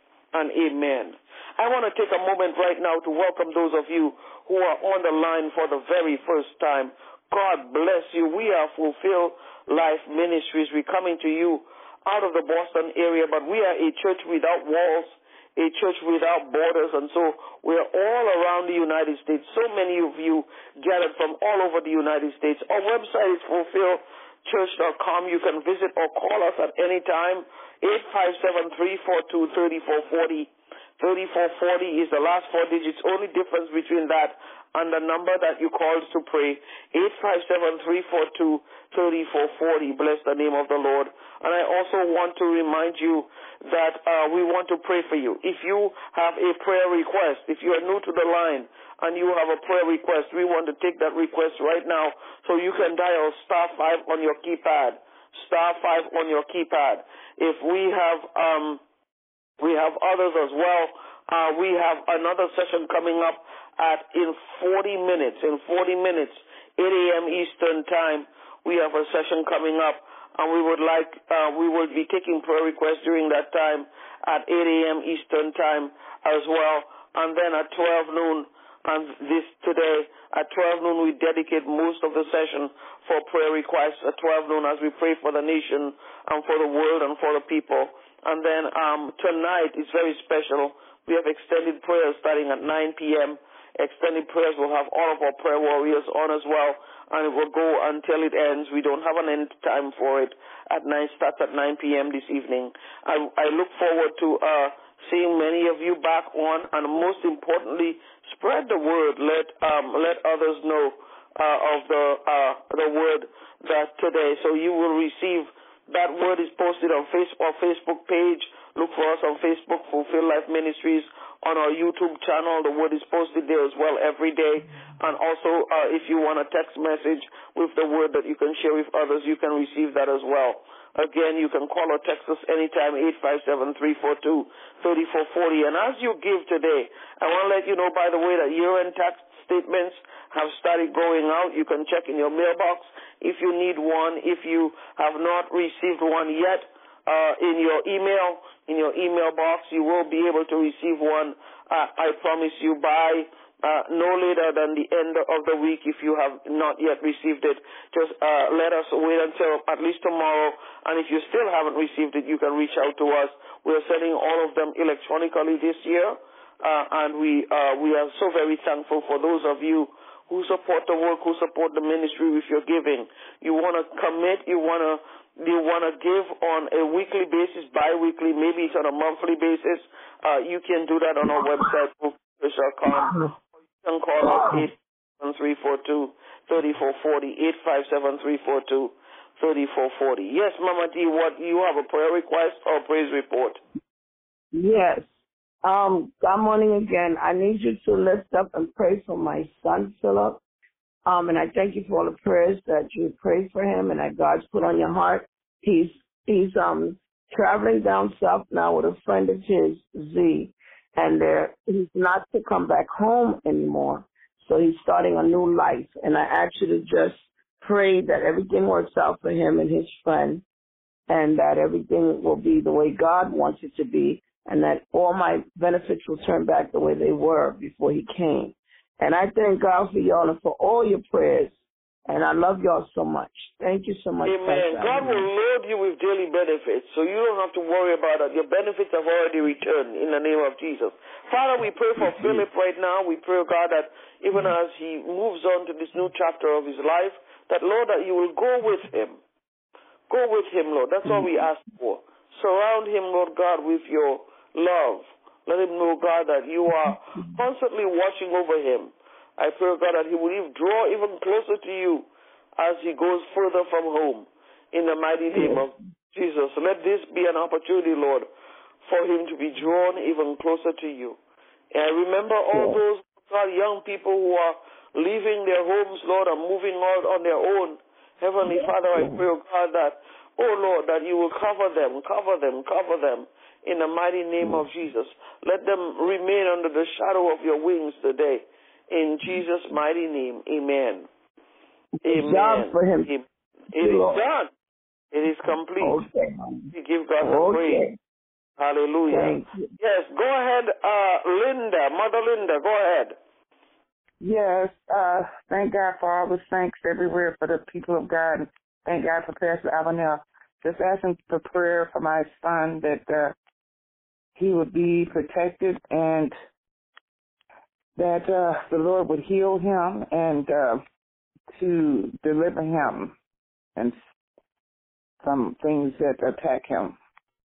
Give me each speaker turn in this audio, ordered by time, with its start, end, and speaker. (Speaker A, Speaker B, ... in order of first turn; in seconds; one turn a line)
Speaker A: 0.3-58.8
Speaker A: 59.6-183.2
Speaker B: 181.3-181.6
Speaker B: 182.9-183.3
Speaker A: 183.8-193.6
Speaker B: 184.2-184.7
Speaker B: 194.6-195.0
Speaker B: 195.6-200.4
Speaker B: 201.1-220.4
Speaker B: 221.1-231.5
Speaker B: 232.1-235.3
Speaker A: 234.2-249.2
Speaker A: 250.1-268.3
Speaker A: 268.9-271.2
Speaker A: 271.7-291.1
Speaker C: 272.5-272.8
Speaker C: 278.5-279.1
Speaker B: 292.0-293.1
Speaker A: 292.0-294.5
Speaker B: 293.7-294.2
Speaker A: 295.1-296.0
Speaker B: 295.8-298.0
Speaker A: 296.7-297.9
Speaker A: 298.6-303.1
Speaker B: 299.1-299.7
Speaker C: 304.2-313.4
Speaker C: 314.4-316.3
Speaker C: 318.0-320.8
Speaker C: 321.5-323.1
Speaker C: 325.2-327.0